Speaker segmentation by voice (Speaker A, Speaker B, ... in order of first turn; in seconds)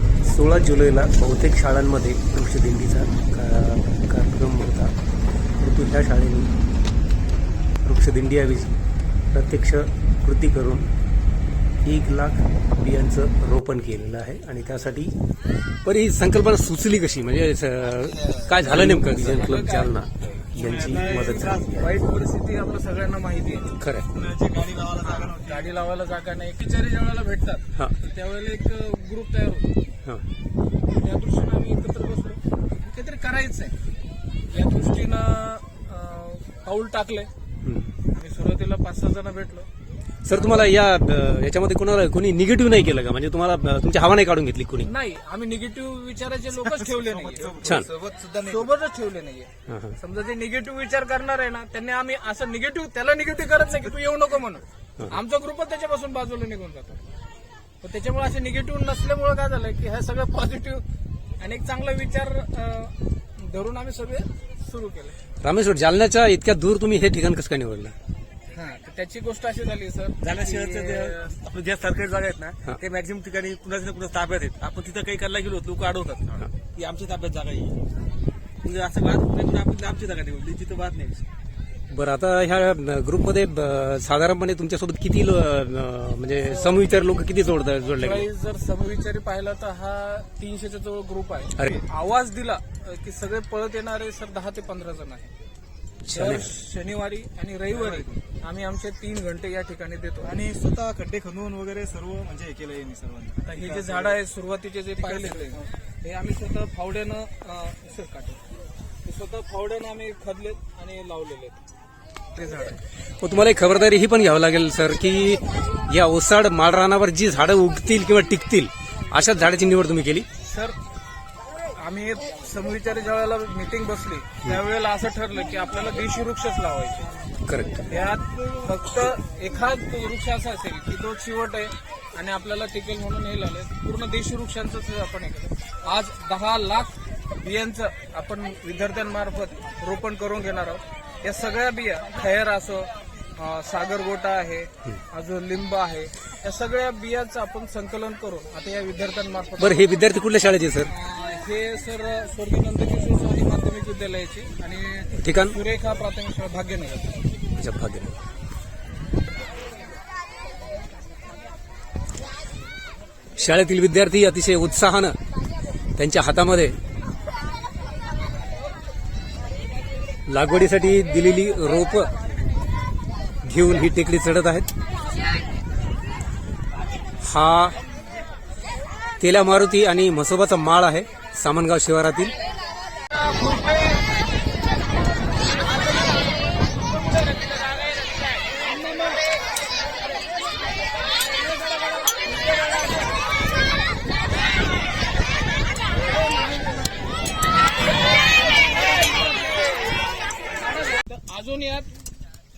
Speaker A: 0.2-5.0, 5.6-6.5, 7.8-8.8, 9.3-10.9, 11.8-15.1, 15.8-21.7, 23.8-24.1, 37.6-38.0, 40.2-44.9, 47.6-47.9, 49.7-50.0, 65.4-67.9, 81.9-88.3, 96.0-96.5, 113.2-120.3, 127.5-127.8, 149.6-150.9, 155.2-155.6, 157.6-158.2, 163.4-165.2, 166.0-166.8, 170.3-172.1, 173.4-174.7, 177.2-177.8, 179.2-182.3
Speaker B: 18.7-19.9, 20.8-23.7, 25.0-29.7, 30.9-33.7, 34.5-37.3, 38.1-39.7, 40.3-40.7, 44.9-47.7, 48.4-57.1, 57.8-60.9, 61.4-65.2, 68.5-71.3, 86.4-86.9, 88.0-95.3, 96.1-100.4, 103.4-108.4, 109.0-111.6, 112.3-112.8, 120.4-120.8, 121.8-127.1, 127.8-149.9, 150.9-157.2, 183.1-184.1, 185.4-189.3, 191.7-193.1, 195.9-197.1, 198.4-200.0, 200.6-201.9
Speaker C: 20.6-21.9, 24.1-25.8, 46.6-48.7, 70.2-77.8, 78.6-81.3, 97.7-98.2, 100.2-104.2, 105.0-105.7